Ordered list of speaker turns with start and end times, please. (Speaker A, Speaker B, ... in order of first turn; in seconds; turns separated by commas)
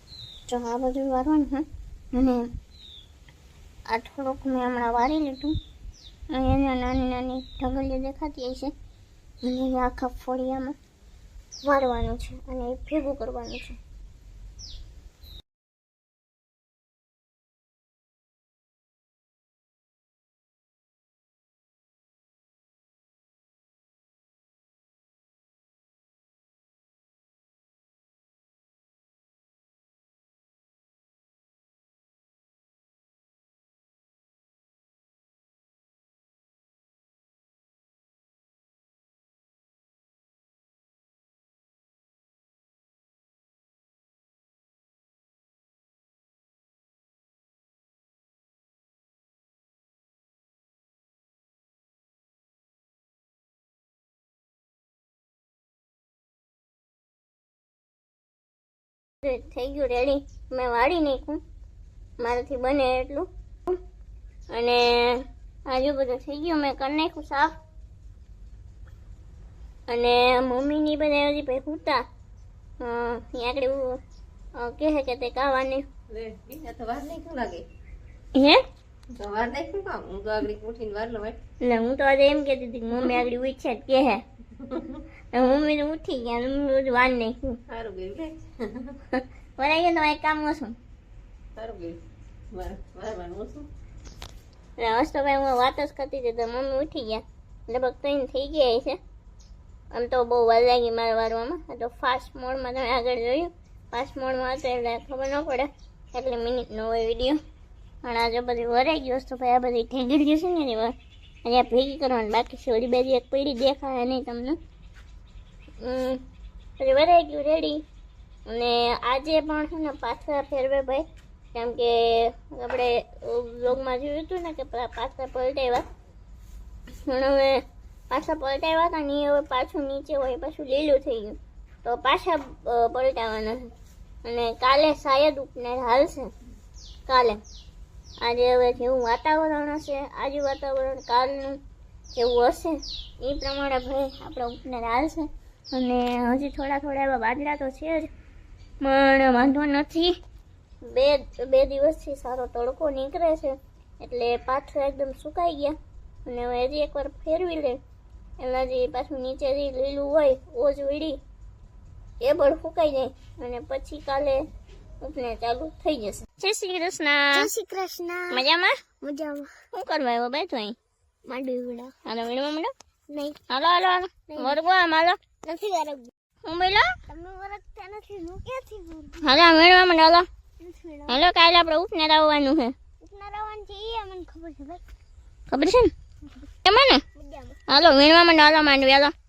Speaker A: 0.5-2.5, Speaker A: 3.9-5.6, Speaker A: 6.3-8.7, Speaker A: 9.4-10.8, Speaker A: 11.6-13.8, Speaker A: 59.2-61.4, Speaker A: 62.2-63.8, Speaker A: 64.5-67.6, Speaker A: 69.9-72.0, Speaker A: 72.8-74.0, Speaker A: 74.6-75.8, Speaker B: 76.1-77.7, Speaker A: 78.3-78.6, Speaker B: 79.2-81.4, Speaker A: 81.6-84.2, Speaker B: 84.7-85.0, Speaker A: 85.3-87.6, Speaker B: 87.7-88.9, Speaker A: 89.1-90.8, Speaker B: 91.6-92.0, Speaker B: 92.5-93.7, Speaker A: 94.8-99.0, Speaker A: 99.9-107.4, Speaker A: 108.0-114.6, Speaker A: 115.8-116.2, Speaker A: 116.8-117.8, Speaker A: 118.5-125.8, Speaker A: 127.0-133.7, Speaker A: 134.2-136.3, Speaker A: 137.1-137.4, Speaker A: 138.2-141.6, Speaker A: 142.1-148.1, Speaker A: 148.8-150.2, Speaker A: 150.8-157.8, Speaker A: 158.4-161.2, Speaker A: 162.2-164.4, Speaker A: 165.0-167.5, Speaker C: 167.3-168.4, Speaker A: 168.3-168.8, Speaker C: 169.0-169.5, Speaker A: 169.7-170.8, Speaker C: 171.2-171.9, Speaker A: 172.1-172.7, Speaker C: 173.1-173.4, Speaker A: 173.5-175.2, Speaker C: 174.3-174.6, Speaker C: 175.4-176.1, Speaker A: 176.4-176.9, Speaker C: 177.1-179.2, Speaker A: 179.2-180.3, Speaker C: 180.6-181.2, Speaker A: 181.1-182.8, Speaker C: 183.0-184.8, Speaker A: 185.5-185.9, Speaker A: 186.6-187.0, Speaker C: 187.1-187.6, Speaker A: 187.7-189.1